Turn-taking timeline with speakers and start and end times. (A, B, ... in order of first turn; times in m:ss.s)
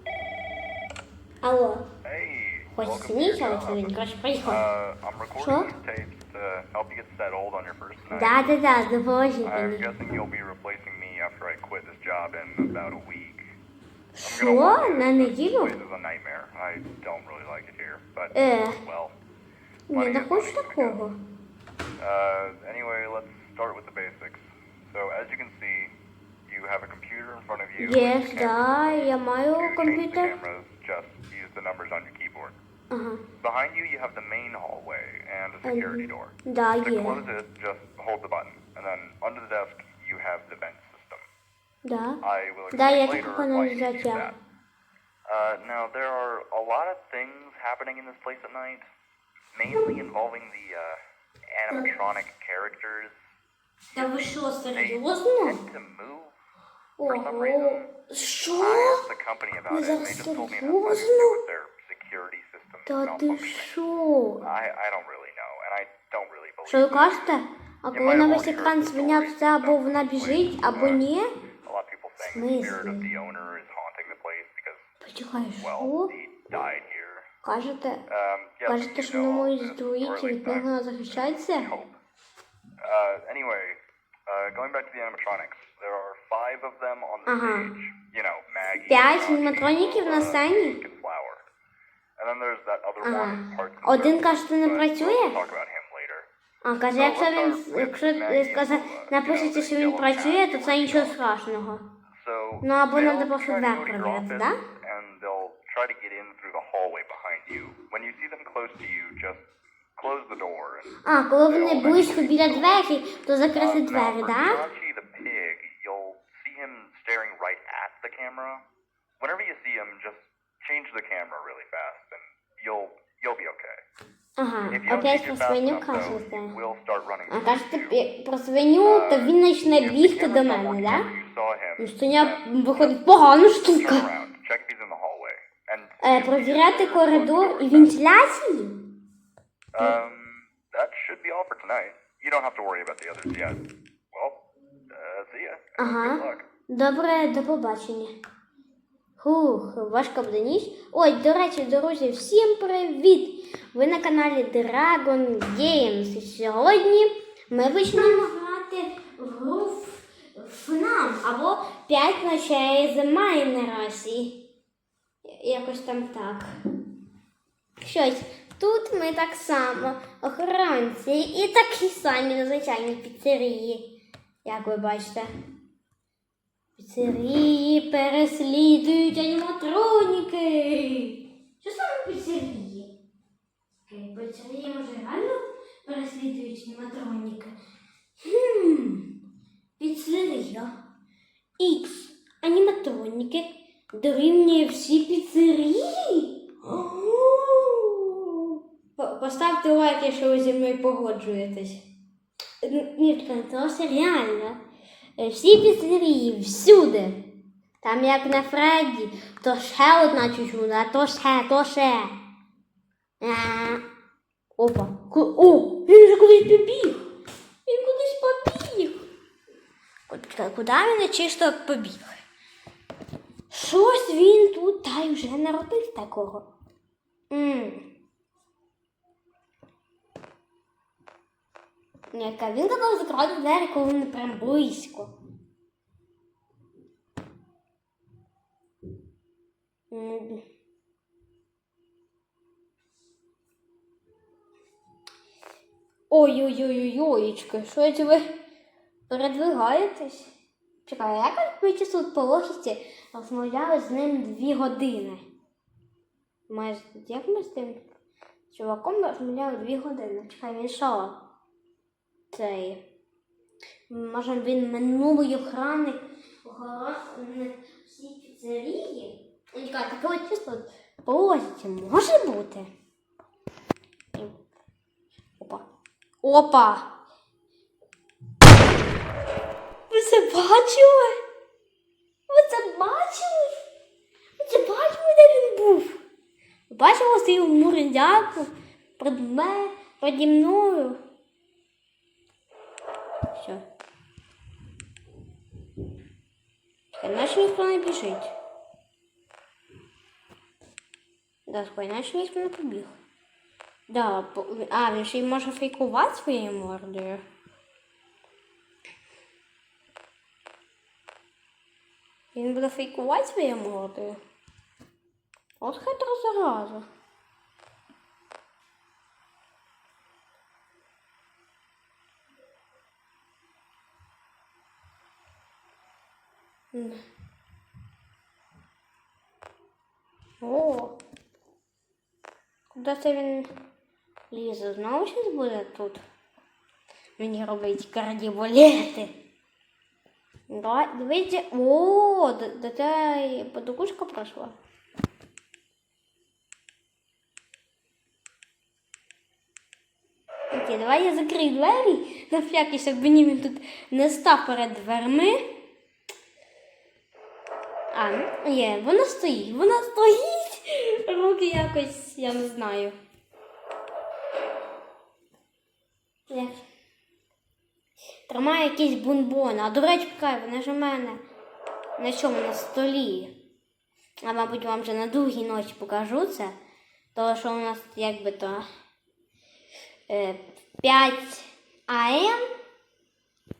0:01.4-0:01.8 A
0:02.0-0:08.5 B
0:02.7-0:04.6 A
0:05.4-0:05.7 A
0:08.1-0:09.8 A
0:09.4-0:13.4 B
0:14.2-0:15.8 A
0:14.2-0:19.2 B
0:18.3-0:18.8 A
0:19.9-0:21.2 A
0:19.9-0:21.0 B
0:22.0-0:25.9 B
0:26.5-0:32.6 B
0:27.8-0:30.3 A
0:32.9-0:33.2 A
0:33.4-0:41.2 B
0:35.6-0:37.2 A
0:41.8-0:42.2 A
0:42.2-0:44.4 B
0:42.7-0:44.3 A
0:45.3-0:48.8 B
0:49.5-0:51.0 B
0:51.6-0:53.2 B
0:53.9-0:55.6 A
0:53.9-0:56.4 B
0:57.0-0:59.0 A
0:57.0-0:57.9 B
0:58.6-1:03.8 B
0:59.7-1:01.4 A
1:02.9-1:04.4 A
1:04.4-1:07.4 B
1:06.7-1:11.3 A
1:07.9-1:11.0 B
1:11.6-1:14.9 B
1:12.2-1:13.1 A
1:15.0-1:16.1 A
1:15.6-1:17.3 B
1:17.4-1:18.0 A
1:18.1-1:22.0 B
1:18.6-1:21.7 A
1:22.8-1:31.4 B
1:27.3-1:27.7 A
1:28.9-1:30.8 A
1:32.2-1:36.3 B
1:33.0-1:35.4 A
1:36.6-1:41.8 A
1:36.9-1:41.2 B
1:42.2-1:50.9 B
1:42.6-1:44.6 A
1:51.0-1:54.6 A
1:51.4-1:52.8 B
1:53.5-1:58.6 B
1:59.2-2:03.8 B
2:04.4-2:06.5 A
2:04.7-2:08.0 B
2:07.3-2:11.1 A
2:08.8-2:18.0 B
2:11.8-2:14.1 A
2:16.0-2:18.8 A
2:19.7-2:26.5 B
2:25.8-2:28.1 A
2:29.2-2:44.4 A
2:45.2-2:46.5 A
2:47.8-2:53.9 A
2:54.4-2:55.3 A
2:56.8-3:02.9 A
3:03.8-3:07.5 A
3:08.2-3:09.1 A
3:09.8-3:10.7 A
3:11.6-3:21.8 A
3:22.6-3:24.6 A
3:25.2-3:27.2 A
3:27.8-3:32.1 A
3:33.2-3:33.8 A
3:34.6-3:37.0 A
3:37.6-3:39.0 A
3:40.1-3:42.2 A
3:43.5-3:46.5 A
3:47.3-3:47.9 A
3:52.1-3:55.1 A
3:59.9-4:00.4 A
4:06.1-4:08.3 A
4:09.1-4:10.3 A
4:10.8-4:15.2 A
4:16.5-4:17.8 A
4:18.5-4:21.2 A
4:22.3-4:22.8 A
4:23.9-4:32.7 A
4:35.4-4:35.6 A
4:36.2-4:36.9 A
4:39.9-4:41.1 A
4:42.3-4:43.6 A
4:44.4-4:46.0 A
4:46.7-4:51.0 A
4:53.3-4:53.6 A
4:56.9-4:58.3 A
5:01.5-5:02.9 A
5:03.9-5:07.2 A
5:12.3-5:14.2 A
5:15.6-5:16.8 A
5:26.7-5:27.0 A
5:30.4-5:31.0 A
5:32.7-5:33.5 A
5:34.3-5:36.0 A
5:37.2-5:39.1 A
5:40.5-5:44.6 A
5:50.5-5:55.4 A
5:57.9-6:03.0 A
6:06.3-6:06.6 A
6:08.3-6:11.2 A
6:12.0-6:13.3 A
6:14.2-6:16.5 A
6:17.1-6:18.6 A
6:20.1-6:22.4 A